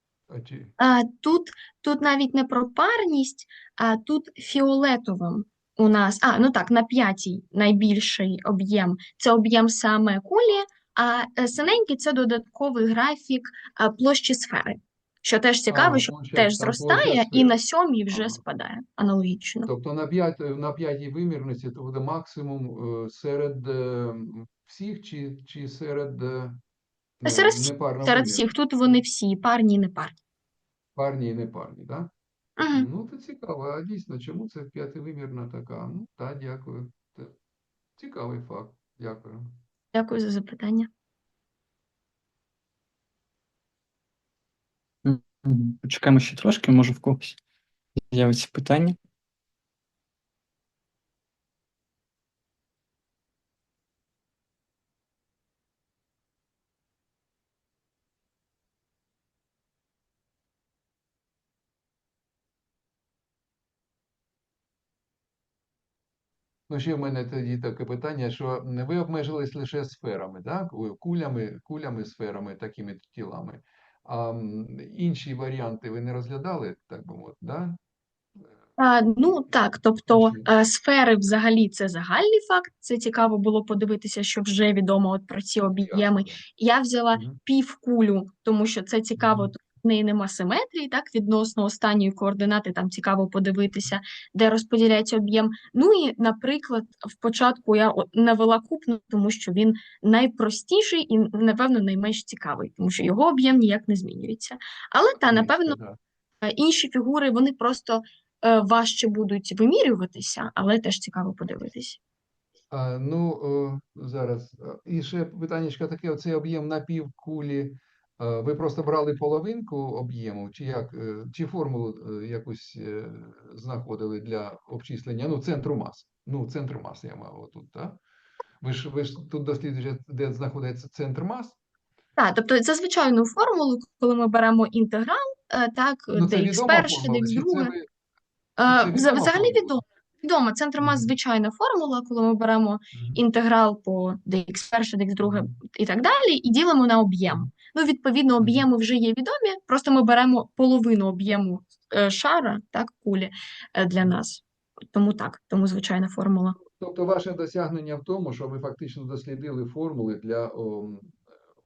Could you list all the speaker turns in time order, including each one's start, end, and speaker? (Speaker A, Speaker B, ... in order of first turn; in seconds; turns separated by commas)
Speaker A: 0.3-0.7, Speaker B: 0.8-19.7, Speaker A: 15.7-17.6, Speaker A: 18.1-18.4, Speaker A: 19.7-26.6, Speaker A: 27.2-29.0, Speaker B: 27.2-30.2, Speaker A: 31.0-32.1, Speaker B: 32.6-32.9, Speaker A: 32.7-37.4, Speaker A: 38.0-39.6, Speaker B: 39.9-40.9, Speaker C: 45.0-47.4, Speaker C: 48.1-49.0, Speaker A: 66.7-77.8, Speaker B: 78.8-105.8, Speaker A: 80.1-80.5, Speaker A: 85.7-86.4, Speaker A: 87.1-87.4, Speaker A: 89.2-89.5, Speaker A: 105.3-106.0, Speaker B: 106.4-112.0, Speaker A: 112.7-128.0, Speaker A: 128.6-131.6, Speaker B: 132.2-137.7, Speaker A: 136.1-137.9, Speaker B: 138.6-156.6, Speaker A: 138.7-139.7, Speaker A: 140.8-141.1, Speaker A: 142.9-143.2, Speaker A: 145.2-145.6, Speaker A: 148.4-148.7, Speaker A: 156.8-161.2